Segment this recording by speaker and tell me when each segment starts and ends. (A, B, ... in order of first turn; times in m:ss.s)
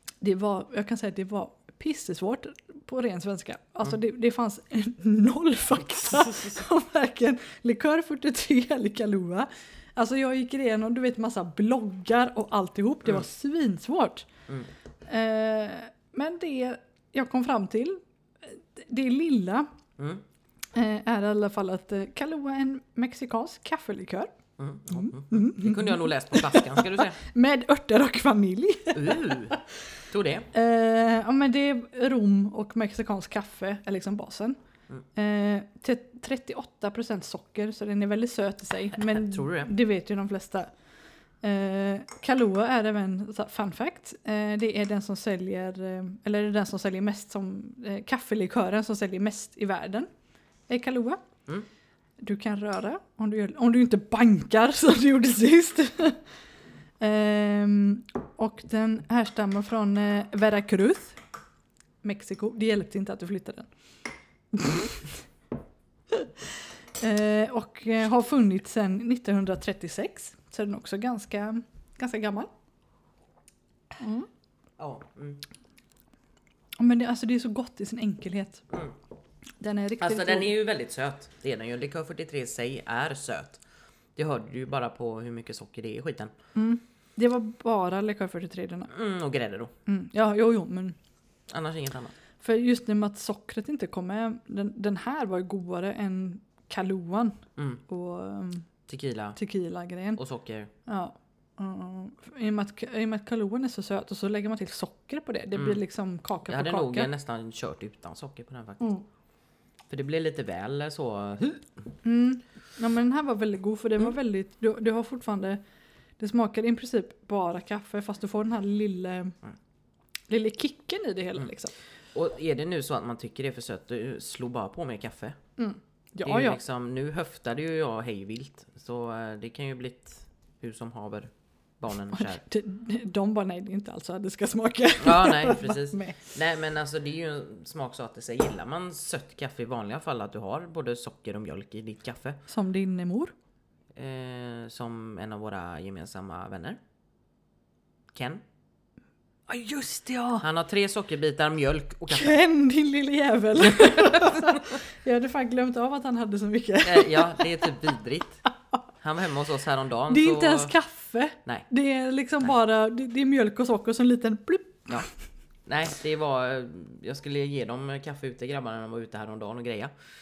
0:00.2-0:14.3 A
0:15.1-0:19.7 A
0:20.0-0:20.2 B
0:20.7-0:24.3 A
0:24.6-0:27.2 B
0:24.9-0:29.6 A
0:28.9-0:29.6 B
0:30.1-0:30.5 B
0:30.5-0:34.6 A
0:35.2-0:40.7 A
0:39.0-0:39.7 B
0:41.4-0:50.1 A
0:50.7-0:51.2 A
0:52.2-0:56.2 A
0:57.0-1:01.2 A
1:02.0-1:03.7 A
1:04.5-1:05.2 A
1:06.1-1:06.5 A
1:07.0-1:12.5 A
1:14.0-1:14.3 A
1:14.8-1:15.4 B
1:16.8-1:18.7 A
1:18.7-1:19.0 B
1:19.6-1:20.6 A
1:20.0-1:23.6 B
1:24.2-1:26.3 B
1:26.6-1:28.9 A
1:28.9-1:29.7 B
1:29.9-1:31.0 A
1:31.5-1:32.1 B
1:32.4-1:38.7 A
1:38.9-1:39.4 B
1:39.4-1:40.2 A
1:40.2-1:40.7 B
1:40.9-1:47.1 A
1:45.5-1:45.8 B
1:46.5-1:48.9 B
1:49.9-1:51.7 B
1:52.0-1:55.6 A
1:56.2-1:59.4 A
2:00.3-2:01.7 A
2:02.1-2:05.4 B
2:05.6-2:06.6 A
2:06.2-2:12.4 B
2:12.1-2:16.3 A
2:15.0-2:22.4 B
2:22.5-2:23.3 A
2:24.0-2:26.8 B
2:28.1-2:28.4 B
2:29.5-2:30.4 A
2:30.4-2:32.4 B
2:32.1-2:37.7 A
2:33.6-2:34.8 B
2:36.8-2:38.4 B
2:39.0-2:40.7 B
2:40.1-2:45.0 A
2:45.7-2:49.9 B